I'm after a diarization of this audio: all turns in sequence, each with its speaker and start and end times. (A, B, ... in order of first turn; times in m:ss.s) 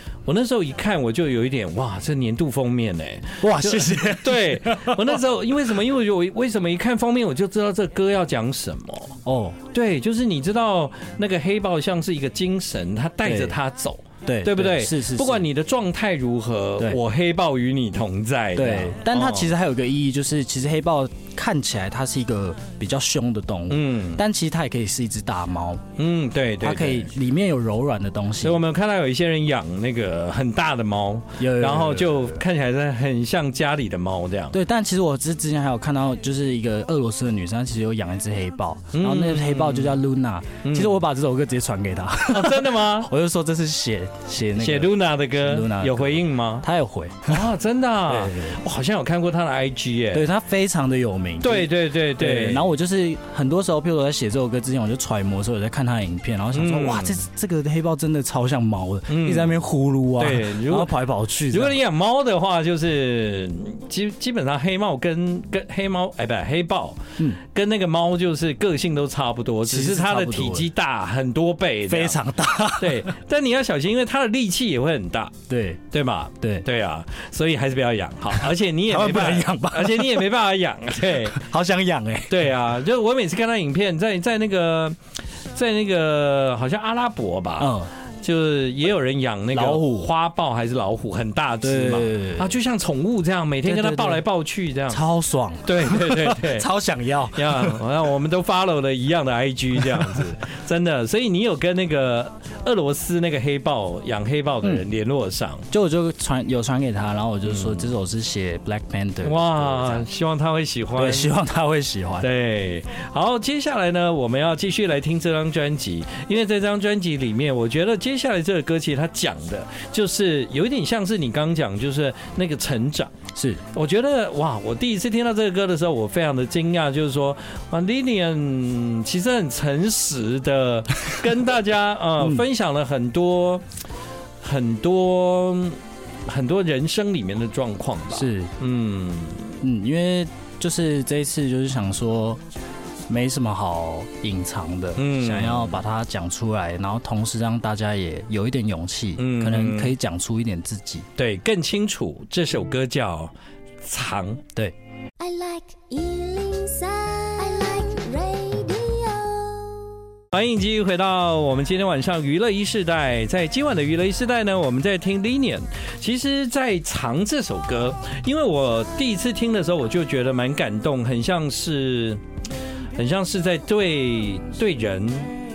0:00.2-0:09.2 A
0:03.4-0:05.2 B
0:09.2-0:09.6 B
0:09.7-0:19.5 A
0:13.2-0:13.6 B
0:14.2-0:15.4 B
0:18.6-0:25.8 B
0:23.7-0:24.2 A
0:26.0-0:27.1 A
0:26.6-0:28.6 B
0:28.4-0:34.6 A
0:31.4-0:32.4 B
0:34.5-0:47.5 B
0:38.9-0:40.0 A
0:40.6-0:41.0 A
0:42.3-0:43.1 A
0:44.6-0:46.6 A
0:47.3-0:50.2 A
0:48.1-0:48.6 B
0:50.1-1:01.8 B
0:51.4-0:52.7 A
0:56.5-0:57.2 A
0:59.1-0:59.6 A
1:00.2-1:00.9 A
1:01.5-1:12.2 A
1:09.6-1:10.7 B
1:11.9-1:13.1 B
1:12.8-1:15.3 A
1:15.5-1:15.8 B
1:15.9-1:21.4 A
1:16.4-1:16.6 B
1:18.3-1:20.3 B
1:21.2-1:22.5 B
1:22.3-1:25.0 A
1:25.5-1:35.0 A
1:27.6-1:27.9 B
1:29.5-1:30.1 B
1:31.6-1:32.6 B
1:33.6-1:34.2 B
1:34.9-1:37.8 B
1:35.6-1:36.7 A
1:37.3-1:45.6 A
1:39.8-1:40.2 B
1:45.7-1:50.0 B
1:47.4-1:47.9 A
1:49.2-1:51.3 A
1:51.0-1:52.3 B
1:52.2-2:03.1 A
2:03.3-2:03.6 B
2:03.7-2:13.6 A
2:12.2-2:12.4 B
2:14.4-2:19.6 A
2:18.1-2:18.5 B
2:19.6-2:22.4 B
2:23.1-2:31.1 B
2:25.0-2:25.8 A
2:29.2-2:29.9 A
2:31.2-2:34.4 A
2:35.2-2:40.0 C
2:40.3-2:52.2 A
2:53.0-2:55.3 A